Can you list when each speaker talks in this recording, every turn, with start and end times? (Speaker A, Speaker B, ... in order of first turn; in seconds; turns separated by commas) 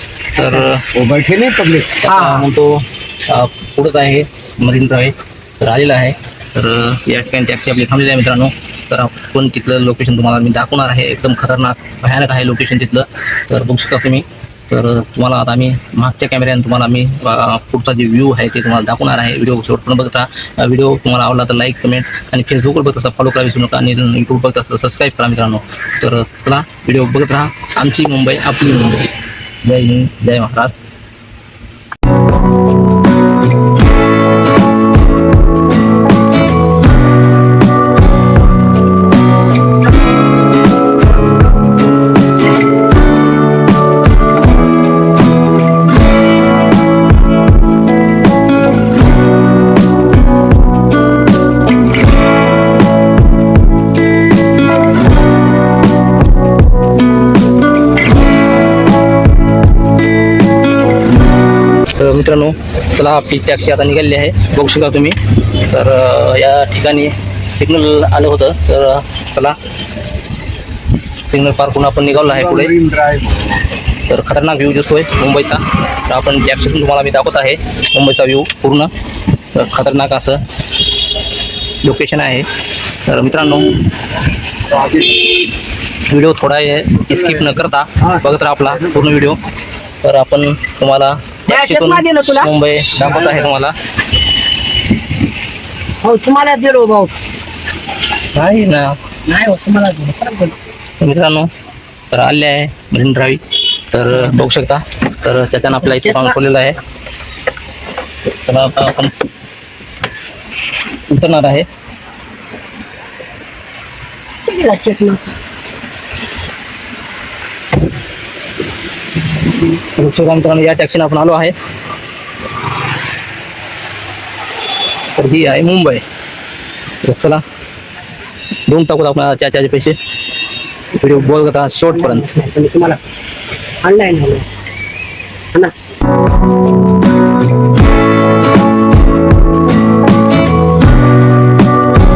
Speaker A: 0.3-0.9, Speaker B: 0.9-2.1, Speaker A: 2.0-29.1, Speaker C: 2.1-2.5, Speaker A: 29.6-30.7, Speaker A: 62.0-69.6, Speaker A: 71.2-72.7, Speaker B: 72.2-73.6, Speaker A: 74.1-78.9, Speaker A: 79.5-80.4, Speaker A: 81.8-82.5, Speaker A: 83.0-83.8, Speaker B: 84.8-85.0, Speaker A: 86.1-89.4, Speaker A: 90.0-93.8, Speaker C: 91.5-92.5, Speaker B: 93.0-93.4, Speaker C: 96.0-97.1, Speaker A: 98.3-99.0, Speaker C: 99.3-100.6, Speaker A: 101.0-101.5, Speaker A: 102.1-106.8, Speaker C: 105.9-106.3, Speaker A: 108.3-109.1, Speaker A: 111.1-111.7, Speaker C: 114.5-115.3, Speaker A: 119.7-121.5, Speaker A: 125.2-126.0, Speaker A: 127.0-127.4, Speaker A: 128.7-130.0, Speaker A: 130.9-132.3, Speaker C: 131.9-133.0, Speaker C: 133.8-134.5